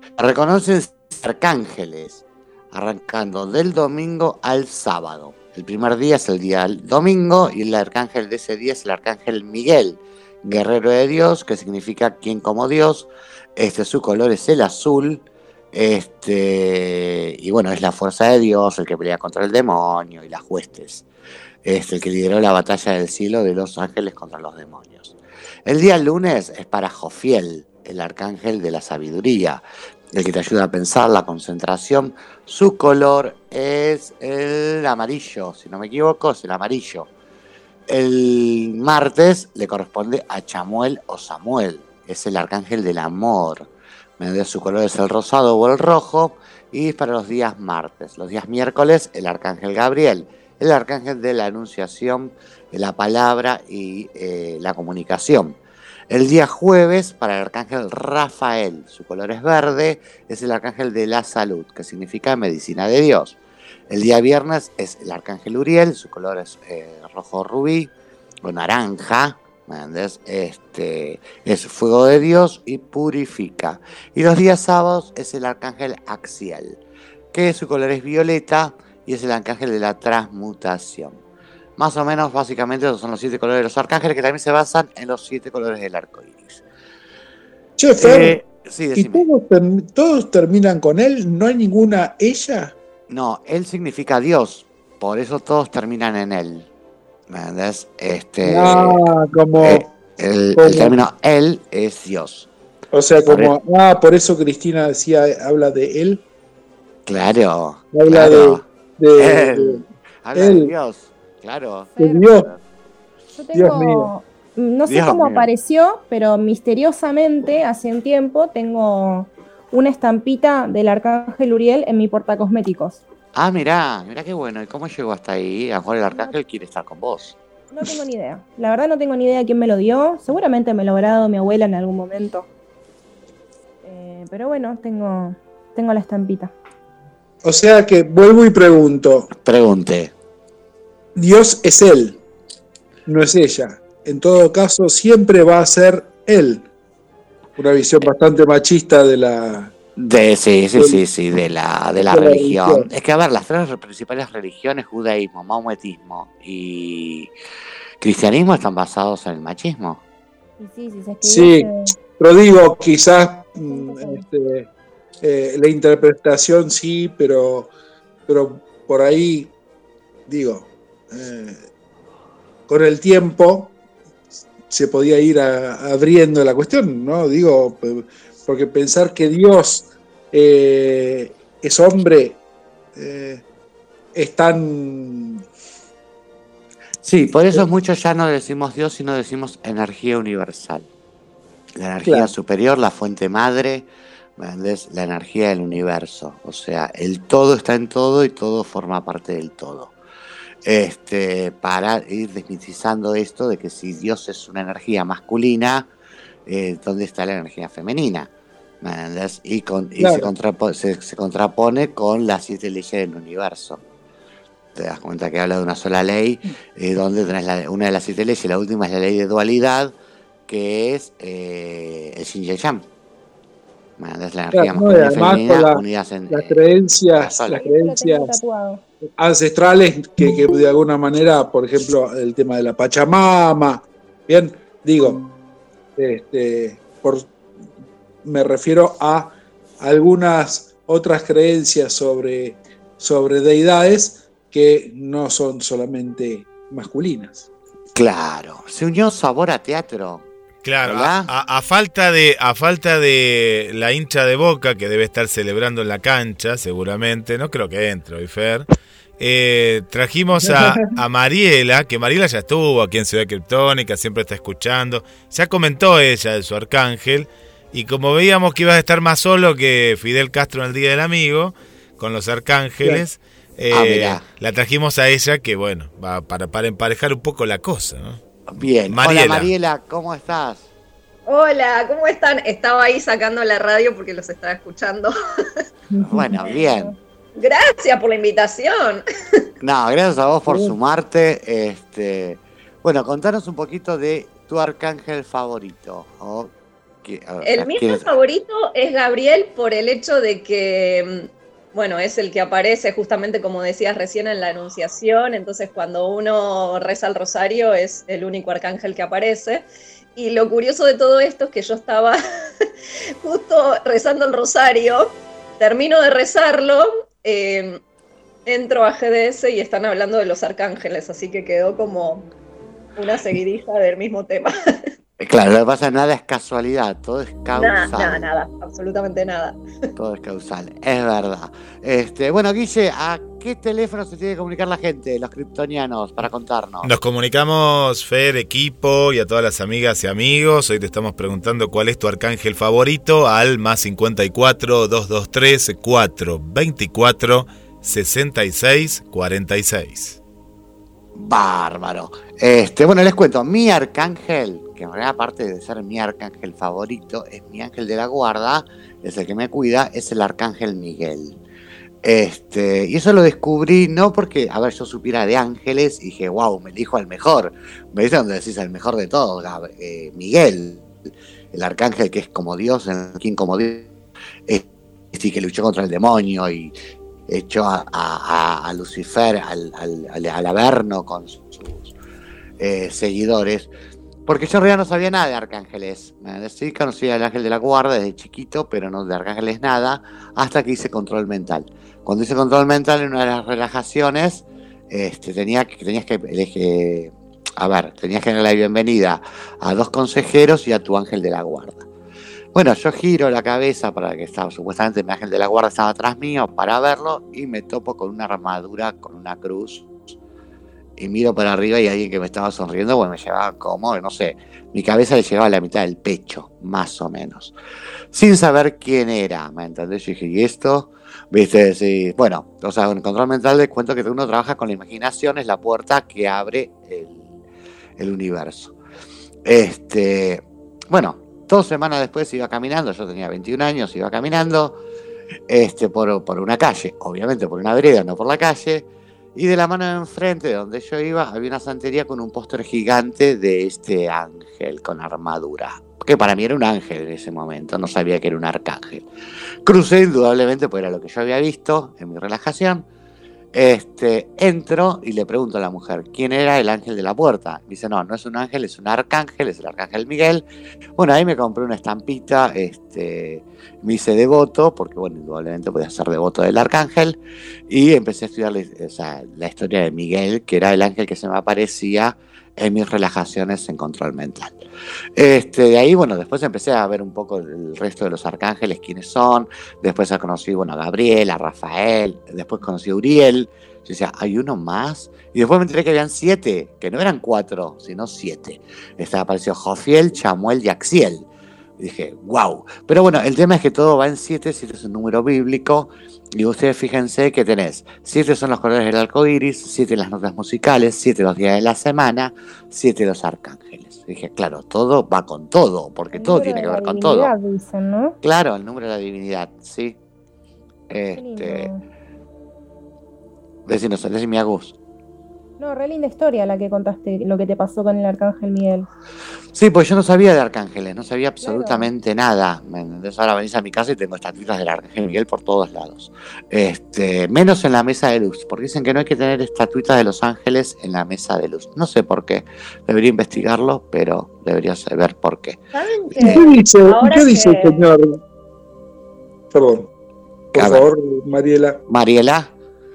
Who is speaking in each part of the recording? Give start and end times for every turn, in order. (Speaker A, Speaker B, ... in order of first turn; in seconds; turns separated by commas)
Speaker A: 0.2-21.1, Speaker A: 21.6-37.1, Speaker A: 37.9-43.7, Speaker A: 44.2-55.6, Speaker A: 56.1-63.4, Speaker A: 63.9-67.9, Speaker A: 68.4-76.8, Speaker A: 77.3-81.2, Speaker A: 81.8-86.6, Speaker B: 87.8-88.5, Speaker A: 88.0-89.3, Speaker B: 89.0-92.7, Speaker A: 93.1-96.7, Speaker A: 97.3-99.0, Speaker B: 98.5-99.9, Speaker A: 99.6-102.5, Speaker B: 100.6-101.0, Speaker B: 102.9-106.2, Speaker A: 103.3-103.5, Speaker A: 107.1-108.6, Speaker B: 107.9-109.8, Speaker A: 109.2-112.6, Speaker B: 110.3-110.7, Speaker C: 112.0-112.3, Speaker B: 112.0-112.5, Speaker C: 113.4-123.0, Speaker B: 113.5-114.1, Speaker A: 114.8-115.5, Speaker A: 123.3-127.4, Speaker C: 127.7-132.5, Speaker C: 133.8-136.5, Speaker B: 137.4-139.3, Speaker A: 139.4-140.1, Speaker B: 141.2-142.2, Speaker B: 143.1-146.7, Speaker B: 147.6-149.7, Speaker A: 150.0-157.3, Speaker B: 152.1-152.9, Speaker A: 158.0-160.0, Speaker C: 160.6-161.9, Speaker B: 161.2-164.7, Speaker C: 163.7-164.2, Speaker B: 165.2-167.7, Speaker B: 168.3-169.5, Speaker B: 170.3-171.6, Speaker B: 172.7-173.8, Speaker B: 174.7-182.4, Speaker B: 182.9-183.4, Speaker B: 184.2-185.4, Speaker A: 187.0-190.9, Speaker A: 191.8-199.9, Speaker B: 192.1-192.3, Speaker A: 200.7-205.9, Speaker A: 206.5-213.8, Speaker B: 210.0-210.3, Speaker A: 214.8-219.9, Speaker A: 220.5-222.9, Speaker A: 224.0-226.6, Speaker B: 224.5-228.3, Speaker A: 227.2-227.6, Speaker C: 227.5-228.8, Speaker B: 229.2-235.2, Speaker B: 236.0-237.3, Speaker B: 238.2-247.5, Speaker A: 247.9-250.3, Speaker D: 250.6-258.7, Speaker A: 250.8-251.3, Speaker D: 259.2-278.2, Speaker B: 260.4-260.9, Speaker A: 273.7-274.2, Speaker A: 278.5-280.7, Speaker D: 278.9-279.5, Speaker E: 281.3-285.1, Speaker A: 286.0-286.9, Speaker C: 286.5-287.0, Speaker E: 287.4-289.0, Speaker A: 289.6-298.1, Speaker B: 290.5-290.7, Speaker E: 297.4-309.6, Speaker E: 310.2-312.2, Speaker E: 313.2-317.8, Speaker E: 318.5-322.3, Speaker E: 323.0-324.9, Speaker A: 325.2-328.3, Speaker E: 327.6-329.6, Speaker A: 330.0-336.9, Speaker D: 336.8-350.2, Speaker A: 351.1-361.4, Speaker A: 362.0-370.9, Speaker A: 371.5-373.9, Speaker A: 374.5-376.7, Speaker A: 377.3-381.9, Speaker A: 382.6-383.7, Speaker A: 384.3-401.9, Speaker A: 402.5-410.1, Speaker A: 411.0-417.6, Speaker A: 418.1-427.4, Speaker A: 428.0-428.8, Speaker A: 429.4-434.8, Speaker A: 435.5-449.1, Speaker A: 449.6-452.9, Speaker A: 453.5-460.4, Speaker A: 461.0-474.6, Speaker A: 475.2-491.3, Speaker A: 491.8-507.3, Speaker C: 506.1-508.2, Speaker A: 508.2-510.0, Speaker A: 510.9-511.7, Speaker C: 511.2-511.8, Speaker A: 513.7-514.8, Speaker C: 515.6-518.9, Speaker A: 519.5-535.6, Speaker C: 521.4-521.9, Speaker E: 535.7-537.9, Speaker B: 536.2-538.2, Speaker B: 539.5-539.9, Speaker A: 540.5-540.9, Speaker B: 540.5-541.8, Speaker A: 541.9-542.5